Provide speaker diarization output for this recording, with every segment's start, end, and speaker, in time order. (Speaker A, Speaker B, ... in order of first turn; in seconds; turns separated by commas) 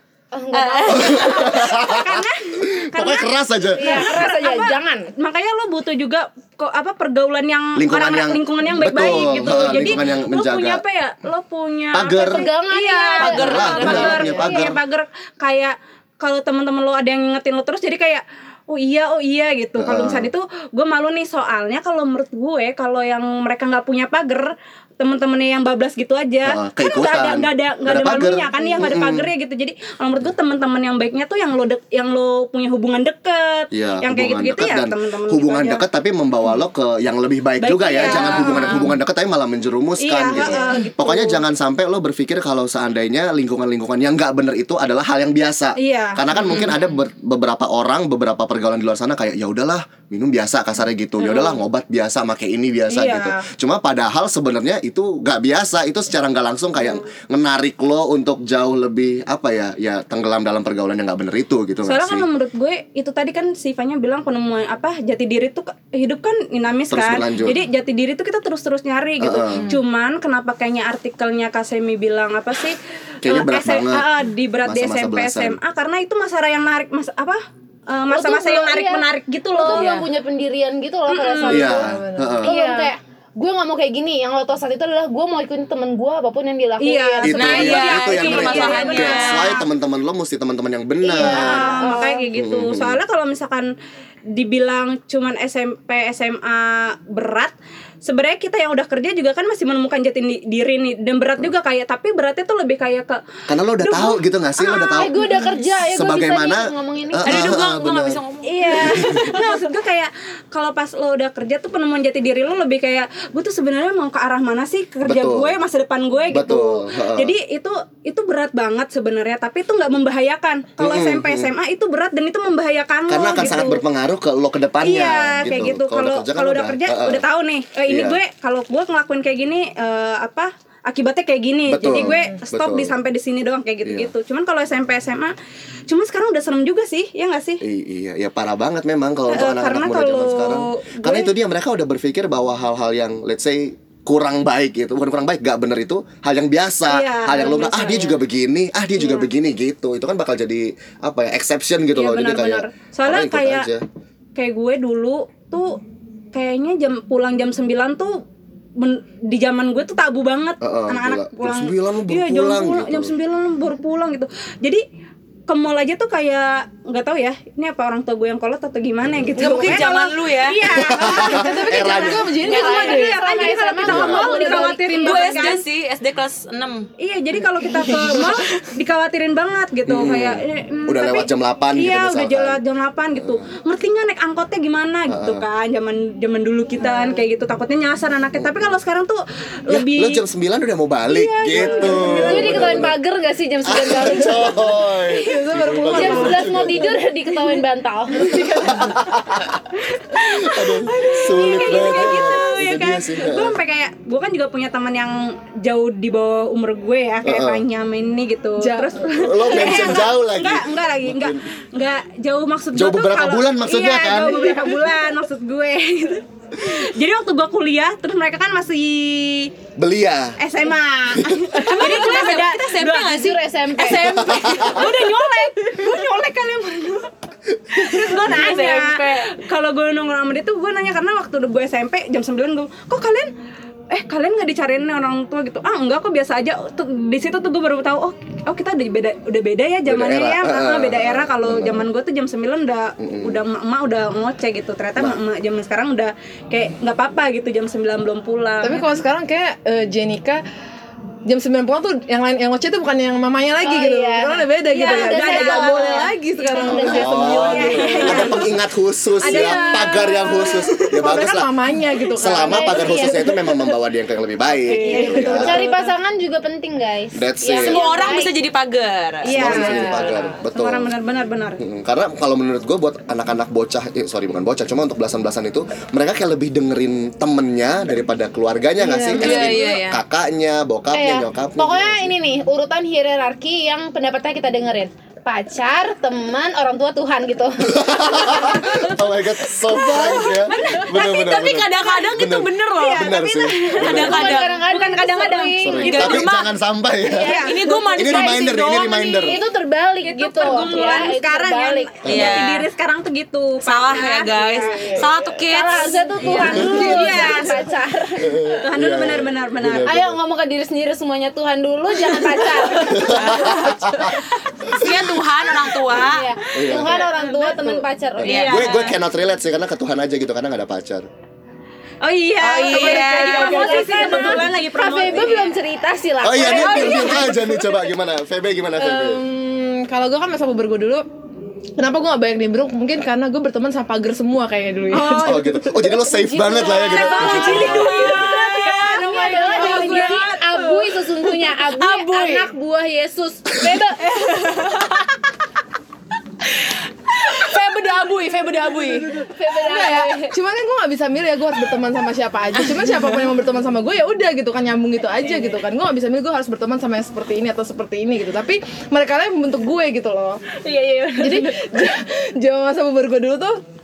Speaker A: 0.3-1.6, Speaker B: 0.5-1.6, Speaker C: 0.9-4.1, Speaker D: 1.6-35.8, Speaker A: 3.8-5.1, Speaker C: 7.8-10.8, Speaker C: 11.9-12.5, Speaker A: 12.2-14.8, Speaker B: 13.2-14.3, Speaker C: 13.2-14.8, Speaker C: 19.8-20.3, Speaker C: 26.5-29.3, Speaker C: 33.7-62.3, Speaker D: 37.6-38.8, Speaker B: 38.0-38.9, Speaker D: 40.0-41.4, Speaker D: 45.8-46.2, Speaker B: 46.3-46.8, Speaker D: 52.9-53.5, Speaker D: 61.9-80.1, Speaker C: 66.9-67.6, Speaker C: 69.2-69.7, Speaker C: 73.2-74.1, Speaker C: 74.7-75.6, Speaker A: 78.1-88.9, Speaker B: 79.7-80.0, Speaker D: 81.1-81.9, Speaker C: 81.5-82.5, Speaker E: 81.6-82.4, Speaker D: 82.4-82.9, Speaker D: 86.8-89.6, Speaker C: 87.2-93.0, Speaker B: 87.3-89.5, Speaker A: 91.0-92.2, Speaker D: 91.2-93.7, Speaker D: 94.3-103.2, Speaker C: 103.5-105.1, Speaker D: 103.8-105.4, Speaker A: 104.8-107.5, Speaker C: 105.8-108.2, Speaker B: 107.2-109.3, Speaker D: 108.5-123.8, Speaker C: 108.8-109.3, Speaker C: 115.0-115.6, Speaker C: 116.3-117.4, Speaker C: 120.8-121.5, Speaker C: 123.1-127.2, Speaker D: 124.8-135.3, Speaker C: 127.9-128.2, Speaker C: 131.7-132.9, Speaker C: 133.8-134.1, Speaker D: 135.9-137.6, Speaker C: 137.6-153.8, Speaker D: 139.3-141.3, Speaker D: 146.9-148.2, Speaker D: 149.0-149.3, Speaker D: 151.9-153.7, Speaker D: 154.4-155.8, Speaker D: 156.3-158.2, Speaker D: 158.8-164.8, Speaker C: 160.6-163.1, Speaker D: 165.5-175.7, Speaker C: 169.1-169.8, Speaker B: 169.4-170.6, Speaker C: 170.7-172.4, Speaker E: 171.1-173.3, Speaker A: 172.4-175.6, Speaker C: 173.8-174.4, Speaker B: 174.4-176.9, Speaker D: 177.0-190.2, Speaker B: 177.6-178.6, Speaker C: 179.9-182.6, Speaker C: 183.2-183.5, Speaker C: 185.1-185.4, Speaker C: 188.4-188.8, Speaker C: 189.7-192.9, Speaker D: 191.1-192.8, Speaker E: 191.5-192.6, Speaker A: 192.0-194.5, Speaker C: 193.7-196.8, Speaker E: 195.1-196.8, Speaker A: 195.8-198.5, Speaker C: 198.3-199.6, Speaker D: 199.8-219.5, Speaker C: 200.2-203.6, Speaker C: 207.2-207.6, Speaker E: 208.6-209.0, Speaker C: 209.1-211.4, Speaker C: 212.8-214.6, Speaker E: 214.3-214.8, Speaker C: 219.8-220.4, Speaker D: 220.4-223.2, Speaker C: 221.2-221.5, Speaker B: 221.5-225.0, Speaker A: 223.0-224.3, Speaker C: 224.1-224.9, Speaker D: 224.3-227.1, Speaker D: 227.7-233.3, Speaker B: 227.9-229.3, Speaker D: 233.9-248.9, Speaker C: 239.9-241.9, Speaker C: 243.0-243.4, Speaker E: 248.6-250.4, Speaker E: 251.3-258.2, Speaker A: 253.6-256.0, Speaker D: 254.7-258.4, Speaker A: 256.6-258.4, Speaker C: 256.7-261.5, Speaker D: 259.2-260.5, Speaker B: 259.3-259.5, Speaker E: 259.3-263.6, Speaker C: 262.2-265.6, Speaker A: 262.3-263.3, Speaker D: 264.7-265.9, Speaker A: 264.8-268.3, Speaker E: 264.9-265.6, Speaker C: 267.1-267.8, Speaker B: 267.5-269.6, Speaker D: 269.2-271.6, Speaker C: 269.3-270.9, Speaker A: 269.3-270.3, Speaker C: 271.6-282.1, Speaker E: 279.0-279.4, Speaker B: 279.1-280.0, Speaker A: 279.1-279.7, Speaker A: 280.9-288.9, Speaker C: 287.7-294.3, Speaker B: 289.7-294.6, Speaker D: 290.5-290.9, Speaker D: 291.8-296.3, Speaker A: 293.8-296.2, Speaker C: 295.6-297.4, Speaker B: 295.8-296.5, Speaker D: 297.1-297.5, Speaker B: 297.1-299.4, Speaker A: 297.3-298.5, Speaker C: 298.0-299.4, Speaker A: 299.2-302.0, Speaker D: 300.0-305.0, Speaker B: 300.6-301.1, Speaker C: 302.1-302.5, Speaker B: 302.1-302.7, Speaker B: 303.6-307.6, Speaker A: 304.7-308.4, Speaker D: 305.8-307.7, Speaker E: 306.6-307.2, Speaker C: 308.2-310.2, Speaker D: 308.5-309.9, Speaker A: 309.9-313.8, Speaker C: 312.9-314.2, Speaker B: 313.1-314.1, Speaker B: 314.7-316.3, Speaker A: 315.9-318.5, Speaker C: 316.5-316.9, Speaker D: 316.6-318.9, Speaker C: 318.2-321.1, Speaker B: 318.2-318.9, Speaker D: 322.0-325.5, Speaker B: 322.4-324.4, Speaker A: 322.4-327.4, Speaker B: 325.0-325.5, Speaker C: 326.2-329.2, Speaker D: 326.5-327.2, Speaker B: 326.5-327.0, Speaker E: 328.8-331.1, Speaker E: 331.8-335.6, Speaker D: 334.9-335.4, Speaker C: 335.2-337.9, Speaker A: 335.4-338.1, Speaker D: 336.9-340.7, Speaker B: 336.9-342.5, Speaker A: 338.9-344.0, Speaker B: 344.0-345.2, Speaker B: 346.5-349.2, Speaker E: 349.2-360.4, Speaker A: 349.3-350.3, Speaker D: 360.6-361.8, Speaker E: 361.2-363.6